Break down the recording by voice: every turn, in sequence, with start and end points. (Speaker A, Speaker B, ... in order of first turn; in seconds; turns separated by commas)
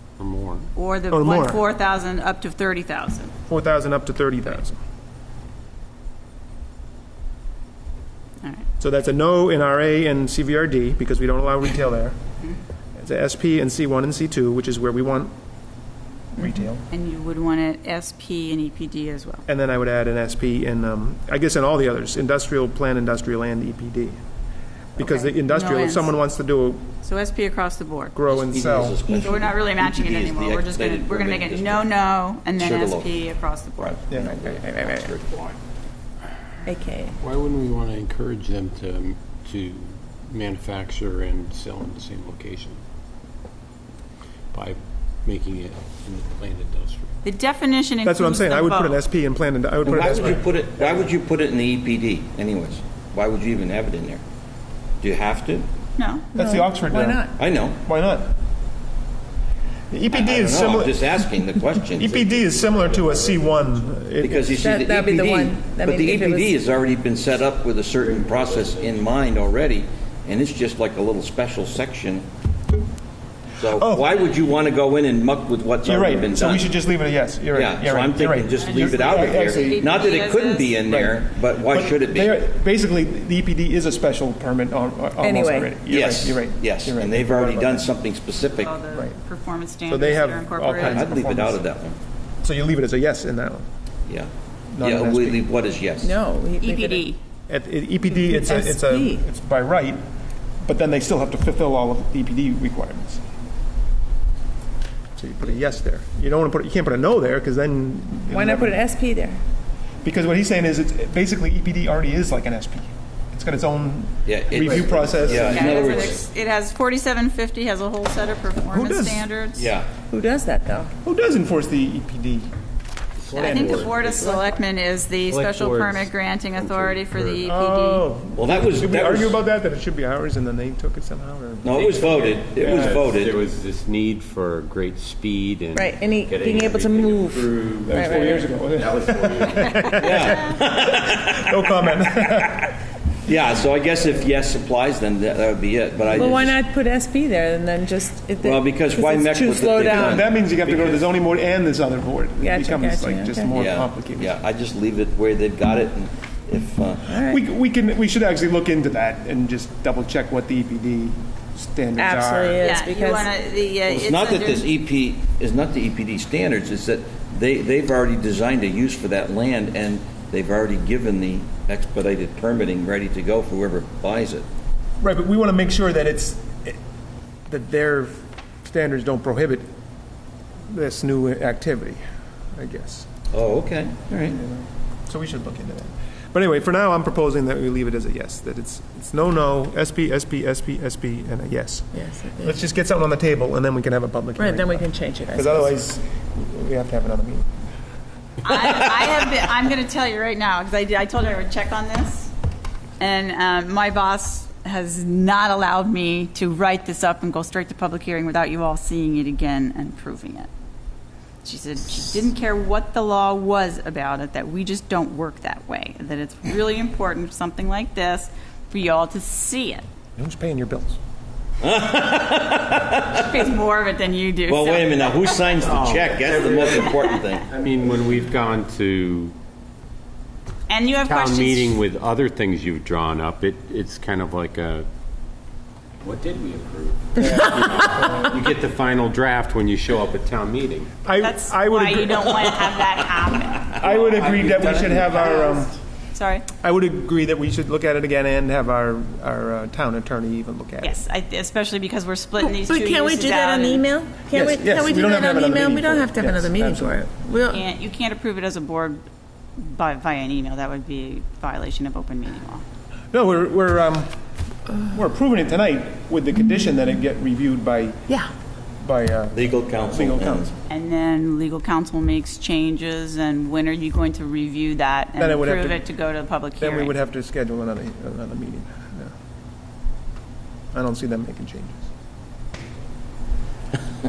Speaker A: 0.2-0.7, Speaker B: 0.8-3.3, Speaker C: 1.1-1.6, Speaker C: 3.5-4.8, Speaker C: 8.8-12.2, Speaker C: 13.0-15.3, Speaker C: 16.4-16.8, Speaker B: 16.9-19.4, Speaker C: 19.5-24.2, Speaker C: 24.9-26.9, Speaker B: 25.0-26.1, Speaker B: 27.0-28.1, Speaker C: 28.1-29.0, Speaker D: 28.3-31.9, Speaker B: 29.1-34.0, Speaker D: 32.5-33.1, Speaker D: 33.8-35.4, Speaker C: 34.1-34.6, Speaker E: 34.5-35.1, Speaker E: 36.6-37.1, Speaker A: 37.2-42.8, Speaker A: 44.5-47.1, Speaker B: 47.2-49.0, Speaker C: 48.0-50.5, Speaker D: 49.8-54.2, Speaker D: 55.0-55.7, Speaker B: 56.0-56.3, Speaker C: 56.3-58.4, Speaker E: 56.4-57.3, Speaker D: 57.4-57.8, Speaker C: 59.9-61.2, Speaker D: 60.1-62.6, Speaker C: 61.9-64.6, Speaker D: 64.2-72.3, Speaker E: 64.6-66.5, Speaker A: 68.2-69.0, Speaker D: 73.6-76.7, Speaker C: 73.7-74.1, Speaker C: 75.8-79.8, Speaker D: 77.5-82.4, Speaker B: 78.5-80.9, Speaker C: 80.8-87.9, Speaker E: 85.2-85.7, Speaker D: 85.9-88.7, Speaker B: 88.3-91.0, Speaker C: 89.9-91.6, Speaker D: 90.7-92.0, Speaker C: 92.4-93.7, Speaker C: 94.7-95.4, Speaker D: 94.8-96.1, Speaker E: 96.0-97.0, Speaker B: 96.6-97.2, Speaker C: 97.5-100.0, Speaker E: 98.1-99.2, Speaker C: 100.6-103.2, Speaker C: 105.2-108.9, Speaker E: 108.3-109.4, Speaker C: 110.0-115.8, Speaker D: 114.2-116.2, Speaker B: 115.3-119.7, Speaker C: 118.7-119.3, Speaker D: 119.5-119.9, Speaker E: 120.1-120.9, Speaker C: 121.0-122.5, Speaker A: 123.2-124.4, Speaker B: 123.3-128.1, Speaker A: 125.3-127.5, Speaker C: 127.4-132.0, Speaker D: 128.3-129.4, Speaker D: 131.6-133.4, Speaker A: 131.7-140.1, Speaker E: 135.7-138.5, Speaker C: 137.9-142.7, Speaker D: 140.0-141.5, Speaker D: 143.2-146.6, Speaker E: 146.1-150.2, Speaker D: 148.4-151.1, Speaker C: 149.9-154.4, Speaker E: 152.4-153.6, Speaker D: 153.5-157.1, Speaker E: 157.1-157.4, Speaker C: 157.3-162.6, Speaker E: 162.0-163.3, Speaker B: 162.6-164.7, Speaker D: 163.9-174.4, Speaker C: 175.0-176.8, Speaker C: 177.5-179.7, Speaker C: 180.7-182.0, Speaker C: 182.5-183.1, Speaker D: 183.3-184.4, Speaker C: 184.2-197.5, Speaker E: 191.9-192.6, Speaker E: 194.3-195.7, Speaker B: 198.4-202.3, Speaker B: 203.0-210.5, Speaker B: 211.4-219.8, Speaker C: 220.2-221.0, Speaker D: 221.6-223.2, Speaker B: 223.1-225.5, Speaker D: 224.5-227.4, Speaker A: 225.7-229.3, Speaker B: 230.7-231.7, Speaker A: 231.0-234.9, Speaker A: 236.0-240.9, Speaker C: 241.0-242.6, Speaker B: 241.2-243.8, Speaker C: 243.7-245.7, Speaker A: 243.8-245.4, Speaker B: 244.4-246.5, Speaker C: 246.6-251.0, Speaker B: 250.8-253.9, Speaker E: 252.4-257.6, Speaker C: 254.3-257.1, Speaker B: 257.5-259.0, Speaker B: 259.6-262.6, Speaker C: 263.1-264.1, Speaker C: 264.8-268.1, Speaker C: 268.8-270.5, Speaker D: 269.3-270.5, Speaker B: 270.7-276.9, Speaker C: 275.2-275.8, Speaker C: 276.6-279.1, Speaker C: 280.7-281.9